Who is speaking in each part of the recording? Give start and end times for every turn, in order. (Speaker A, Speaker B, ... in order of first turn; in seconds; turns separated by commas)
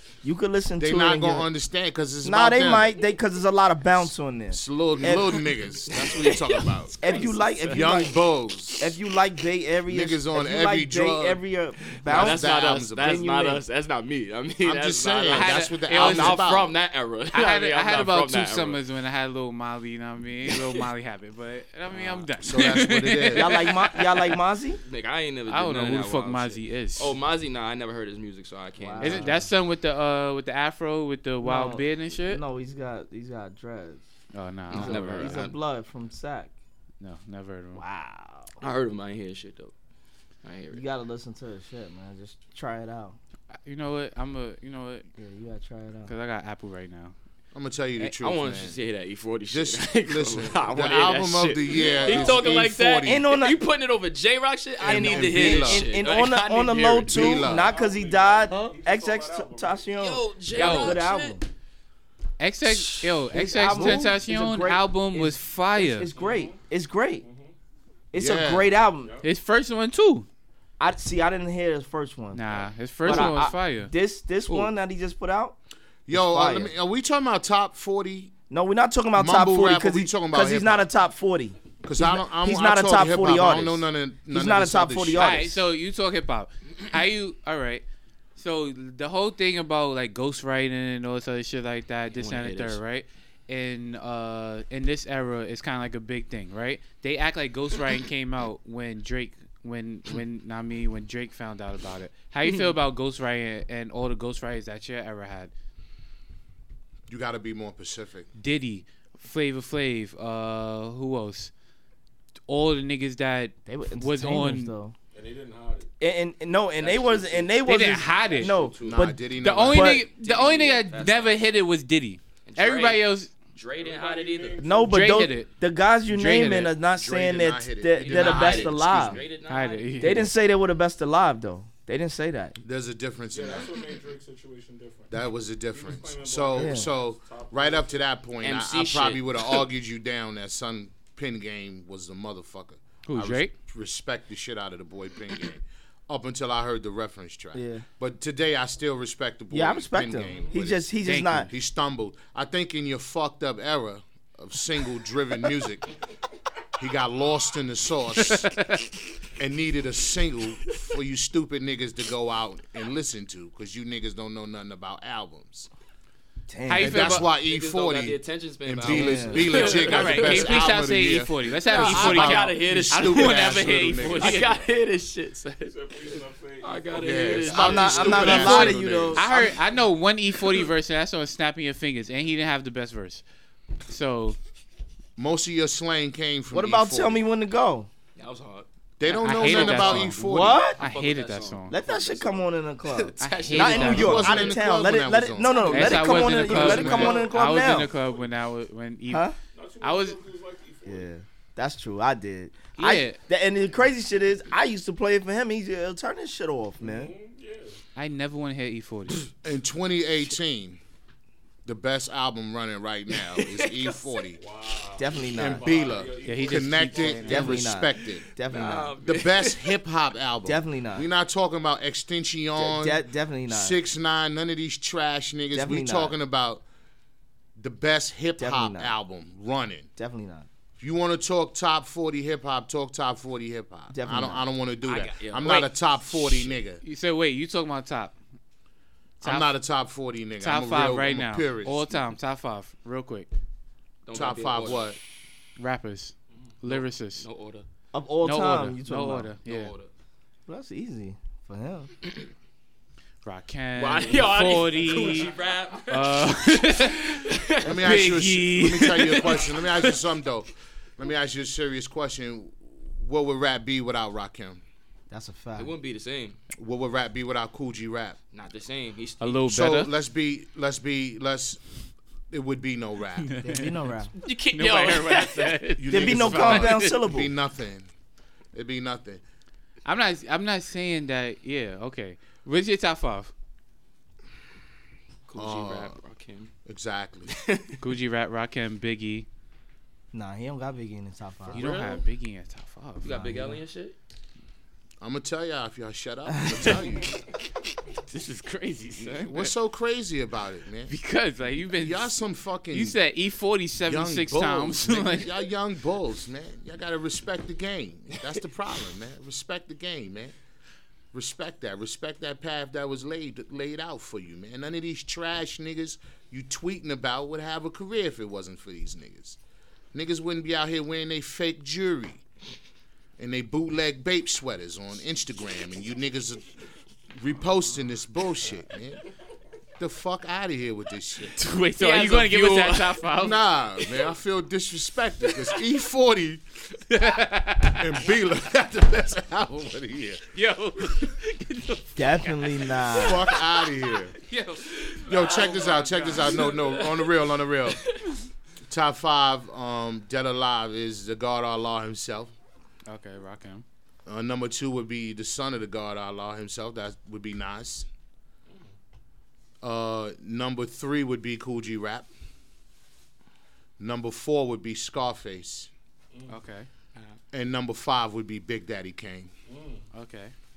Speaker A: 0.2-1.5, Speaker B: 0.8-3.0, Speaker A: 2.2-5.4, Speaker B: 4.5-7.0, Speaker C: 5.9-8.0, Speaker A: 7.0-8.2, Speaker B: 7.7-8.9, Speaker A: 8.8-13.6, Speaker B: 9.9-11.4, Speaker C: 12.0-18.8, Speaker B: 12.1-13.2, Speaker B: 14.6-16.8, Speaker D: 15.3-16.4, Speaker D: 17.3-24.3, Speaker C: 20.5-20.8, Speaker C: 21.9-22.3, Speaker B: 22.4-23.6, Speaker A: 23.3-24.8, Speaker C: 24.9-29.4, Speaker D: 25.5-27.1, Speaker A: 28.8-29.5, Speaker D: 29.0-32.4, Speaker A: 31.4-34.0, Speaker D: 34.3-35.4, Speaker C: 34.7-35.6, Speaker A: 34.7-36.5, Speaker D: 37.0-37.8, Speaker A: 37.8-38.5, Speaker C: 38.6-39.7, Speaker C: 40.4-40.8, Speaker A: 40.7-43.2, Speaker D: 43.6-45.0, Speaker A: 45.2-46.1, Speaker D: 46.1-47.1, Speaker B: 47.5-48.8, Speaker C: 48.2-57.5, Speaker B: 49.5-53.3, Speaker E: 51.6-52.5, Speaker A: 53.0-53.6, Speaker B: 54.8-55.9, Speaker A: 54.8-61.5, Speaker B: 57.1-57.7, Speaker E: 57.5-59.9, Speaker C: 60.0-61.4, Speaker D: 60.5-61.0, Speaker D: 62.4-66.1, Speaker A: 63.3-67.2, Speaker B: 63.7-64.1, Speaker E: 66.1-66.6, Speaker E: 67.2-67.5, Speaker A: 68.1-69.2, Speaker B: 68.1-68.7, Speaker E: 69.0-69.3, Speaker D: 69.2-70.3, Speaker A: 70.8-72.4, Speaker D: 72.3-73.9, Speaker A: 73.0-75.6, Speaker C: 73.1-73.3, Speaker B: 76.1-78.3, Speaker A: 76.1-76.7, Speaker A: 78.5-85.5, Speaker B: 79.1-80.9, Speaker B: 81.8-85.6, Speaker D: 85.2-87.8, Speaker D: 88.4-105.5, Speaker C: 92.1-92.8, Speaker B: 107.1-108.3, Speaker D: 108.4-111.5, Speaker D: 112.5-114.7, Speaker A: 113.7-114.9, Speaker E: 115.1-115.9, Speaker A: 116.0-120.0, Speaker C: 116.8-117.6, Speaker D: 117.6-118.5, Speaker C: 118.3-119.1, Speaker B: 118.4-120.0, Speaker D: 119.4-123.3, Speaker C: 120.1-121.4, Speaker C: 122.5-123.0, Speaker C: 123.5-124.9, Speaker E: 123.8-125.2, Speaker A: 124.6-129.2, Speaker D: 124.9-125.5, Speaker D: 126.1-126.7, Speaker B: 126.9-129.2, Speaker C: 128.0-130.0, Speaker D: 129.5-130.3, Speaker A: 130.0-132.6, Speaker B: 132.6-133.8, Speaker E: 133.3-135.1, Speaker B: 135.1-150.9, Speaker E: 135.7-137.9, Speaker A: 136.6-136.9, Speaker C: 138.4-139.6, Speaker D: 143.1-143.5, Speaker A: 147.5-147.8, Speaker A: 149.5-151.5, Speaker E: 150.3-150.6, Speaker D: 151.1-151.5, Speaker B: 151.5-155.9, Speaker B: 156.8-158.5, Speaker D: 158.2-158.9, Speaker B: 159.4-165.7, Speaker A: 166.5-167.2, Speaker D: 166.7-167.3, Speaker B: 166.7-174.5, Speaker C: 167.4-170.7, Speaker A: 168.8-169.9, Speaker D: 169.6-174.5, Speaker C: 171.7-178.7, Speaker E: 175.6-177.8, Speaker B: 176.9-179.2, Speaker A: 177.4-179.6, Speaker D: 178.2-183.2, Speaker D: 183.9-184.4, Speaker B: 185.2-187.2, Speaker A: 186.5-187.9, Speaker C: 188.2-188.7, Speaker B: 189.0-190.7, Speaker D: 189.0-190.2, Speaker C: 189.3-190.0, Speaker A: 189.6-190.8, Speaker C: 190.6-194.6, Speaker D: 190.8-191.7, Speaker A: 191.7-197.9, Speaker D: 193.2-194.5, Speaker B: 193.7-196.9, Speaker D: 195.6-199.3, Speaker C: 195.6-197.3, Speaker E: 196.5-197.3, Speaker E: 197.9-198.3, Speaker A: 199.1-199.4, Speaker E: 199.5-201.1, Speaker D: 199.8-200.2, Speaker A: 200.8-207.1, Speaker D: 202.8-203.2, Speaker E: 206.8-207.8, Speaker D: 207.9-209.3, Speaker B: 209.4-210.8, Speaker B: 211.6-214.4, Speaker C: 213.1-214.2, Speaker E: 214.3-217.6, Speaker A: 215.0-215.9, Speaker B: 215.3-218.2, Speaker D: 216.2-217.6, Speaker A: 217.2-218.9, Speaker C: 218.5-219.8, Speaker B: 219.0-226.6, Speaker A: 220.4-221.1, Speaker A: 222.6-223.8, Speaker A: 225.5-226.1, Speaker B: 227.6-229.9, Speaker A: 228.4-228.9, Speaker A: 230.0-230.5, Speaker B: 230.8-236.8, Speaker A: 233.9-234.4, Speaker C: 234.8-235.7, Speaker D: 236.8-238.1, Speaker D: 239.2-239.6, Speaker B: 239.2-242.0, Speaker D: 240.4-243.3, Speaker C: 244.1-244.9, Speaker B: 244.1-245.0, Speaker D: 245.6-247.2, Speaker C: 246.6-247.6, Speaker A: 247.9-249.3, Speaker D: 248.2-249.7, Speaker C: 249.4-249.9, Speaker A: 250.5-251.9, Speaker D: 253.2-259.4, Speaker C: 253.8-257.8, Speaker B: 257.6-264.6, Speaker C: 259.0-260.0, Speaker A: 265.1-265.7, Speaker C: 265.6-266.4, Speaker B: 266.6-268.2, Speaker C: 268.3-269.4, Speaker D: 269.2-269.9, Speaker B: 269.5-271.6, Speaker B: 272.3-273.3, Speaker D: 273.2-273.8, Speaker A: 273.4-274.1, Speaker C: 274.2-276.7, Speaker D: 274.5-276.9, Speaker B: 275.8-277.9, Speaker A: 275.9-277.3, Speaker B: 278.5-279.2, Speaker D: 279.9-283.3, Speaker C: 285.3-286.5, Speaker B: 285.4-286.0, Speaker B: 286.6-287.4, Speaker C: 287.3-287.8, Speaker D: 287.8-289.3, Speaker A: 290.1-291.7, Speaker C: 291.5-291.9, Speaker B: 291.5-292.0, Speaker D: 291.5-293.2, Speaker C: 293.0-293.9, Speaker A: 293.1-293.6, Speaker B: 295.0-297.2, Speaker A: 296.3-296.9, Speaker D: 298.1-299.5, Speaker B: 299.2-300.9, Speaker D: 300.9-302.2, Speaker B: 301.8-303.0, Speaker D: 302.7-305.3, Speaker B: 303.9-310.4, Speaker B: 311.1-319.4, Speaker B: 319.9-322.2, Speaker B: 323.2-326.6, Speaker B: 327.1-329.0, Speaker B: 329.8-331.4, Speaker D: 331.3-333.4, Speaker C: 331.8-333.1, Speaker B: 333.1-336.4, Speaker C: 335.2-335.6, Speaker D: 336.9-337.9, Speaker B: 337.8-340.2, Speaker D: 340.3-343.3, Speaker A: 341.9-343.3, Speaker B: 342.9-344.1, Speaker D: 344.2-346.6, Speaker C: 344.8-345.6, Speaker B: 345.1-347.9, Speaker C: 346.2-347.1, Speaker C: 347.7-348.0, Speaker B: 348.6-352.3, Speaker D: 352.9-353.6, Speaker B: 354.1-357.9, Speaker B: 359.6-362.1, Speaker B: 363.8-365.7, Speaker E: 366.1-366.4, Speaker D: 366.3-366.7, Speaker B: 367.3-369.3, Speaker E: 369.5-369.9, Speaker D: 369.9-370.3